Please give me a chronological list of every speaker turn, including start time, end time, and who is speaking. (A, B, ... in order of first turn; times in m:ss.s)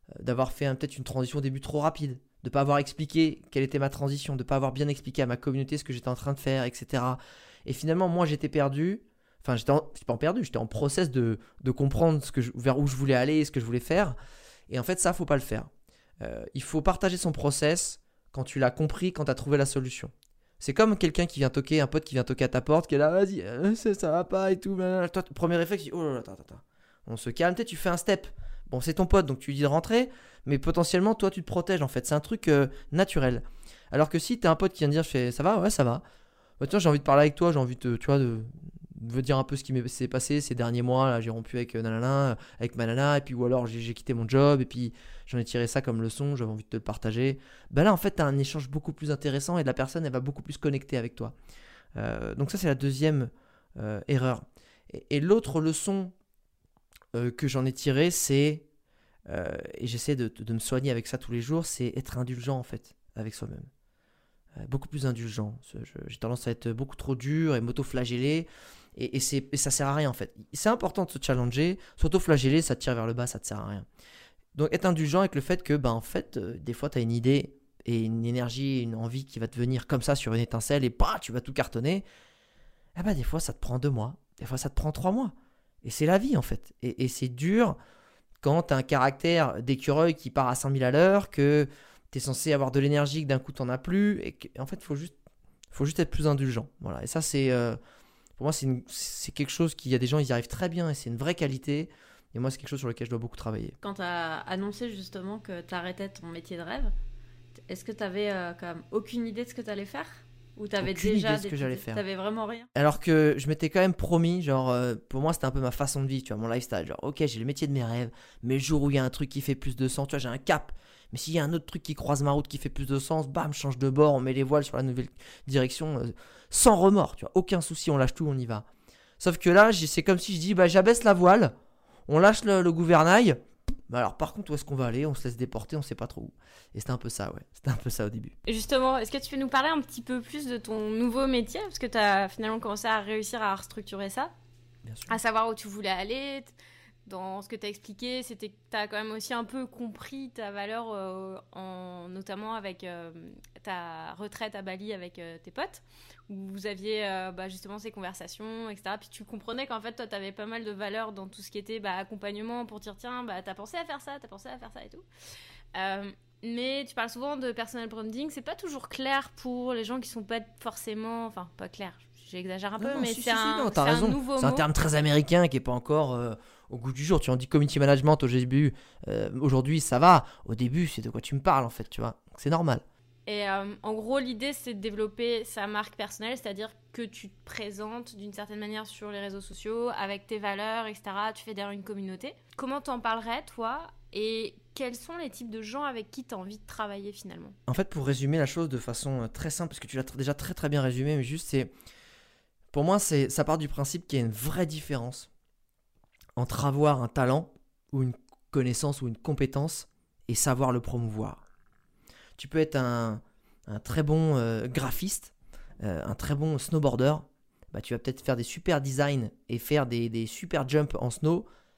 0:00.2-0:14.2 A
0:14.7-0:15.7 A
0:16.2-0:36.0 A
0:36.6-0:51.4 A
0:52.0-0:56.2 A
0:57.1-0:58.7 A
0:59.3-1:03.7 A
1:04.6-1:13.9 A
1:14.5-1:22.0 A
1:23.0-1:27.8 A
1:28.4-1:35.2 A
1:35.7-1:37.8 A
1:38.4-1:43.8 A
1:43.8-1:46.9 B
1:47.7-1:52.7 B
1:50.8-1:52.0 A
1:52.8-2:08.7 A
2:09.2-2:11.5 A
2:12.1-2:18.3 A
2:18.5-2:24.3 C
2:24.8-2:25.2 A
2:25.1-2:26.5 C
2:27.1-2:45.0 C
2:45.7-2:54.7 C
2:52.8-3:02.8 A
3:03.3-3:17.6 C
3:17.7-3:21.7 A
3:22.7-3:25.3 A
3:26.4-3:31.4 A
3:32.4-3:41.5 A